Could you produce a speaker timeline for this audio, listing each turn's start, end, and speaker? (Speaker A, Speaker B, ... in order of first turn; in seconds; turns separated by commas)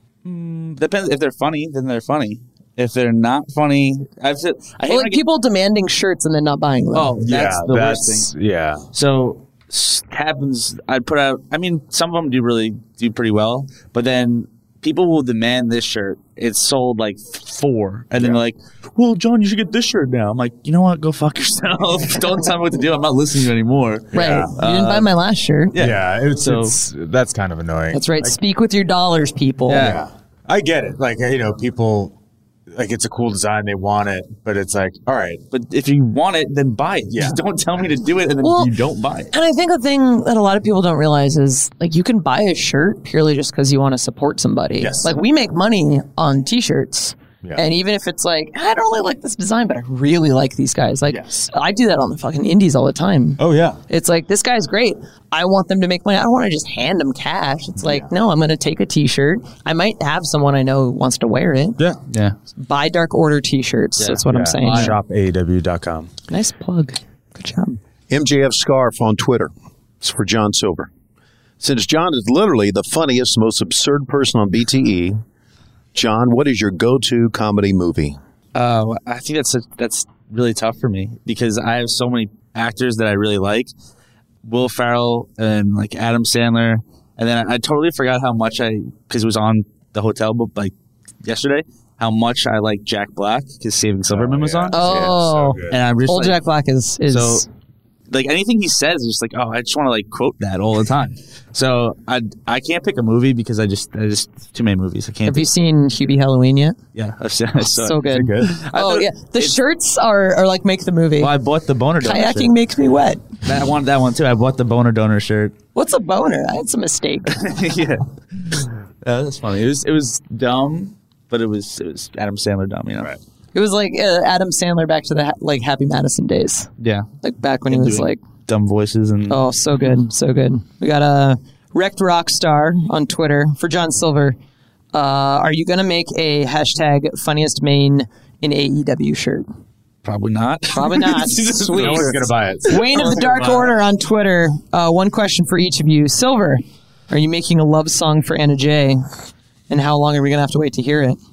Speaker A: 0.2-5.2, Speaker B: 4.9-7.1, Speaker A: 6.9-8.3, Speaker C: 7.2-8.9, Speaker A: 8.9-25.1, Speaker C: 24.1-24.6, Speaker B: 24.1-25.8, Speaker A: 25.7-26.8, Speaker C: 25.8-28.4, Speaker B: 27.9-30.0, Speaker A: 29.7-30.0, Speaker C: 29.8-32.1, Speaker C: 32.7-35.4, Speaker A: 35.5-39.3, Speaker C: 37.1-37.4, Speaker B: 38.4-38.7, Speaker B: 39.3-61.8, Speaker C: 44.8-45.2, Speaker C: 51.1-51.5, Speaker C: 53.4-53.8, Speaker C: 57.8-58.1, Speaker A: 62.1-62.4, Speaker B: 62.6-65.0, Speaker A: 64.0-65.0, Speaker C: 64.3-66.1, Speaker B: 66.3-67.8, Speaker D: 68.1-70.9, Speaker D: 71.6-75.2, Speaker D: 76.0-78.2, Speaker A: 78.5-83.7, Speaker A: 84.4-95.1, Speaker C: 94.1-95.8, Speaker B: 94.7-97.5, Speaker A: 95.7-96.4, Speaker A: 97.1-97.5, Speaker A: 98.1-105.5, Speaker B: 105.3-106.8, Speaker A: 107.0-109.5, Speaker B: 107.6-111.3, Speaker C: 108.1-108.5, Speaker A: 111.2-112.5, Speaker B: 112.0-113.3, Speaker A: 113.4-115.6, Speaker B: 115.8-117.5, Speaker A: 117.3-123.1, Speaker B: 123.5-126.7, Speaker A: 126.8-127.1, Speaker B: 127.2-128.2, Speaker A: 127.7-129.4, Speaker B: 129.3-134.4, Speaker B: 134.9-139.5, Speaker A: 140.0-142.3, Speaker B: 140.7-149.1, Speaker C: 141.7-143.7, Speaker B: 149.7-151.2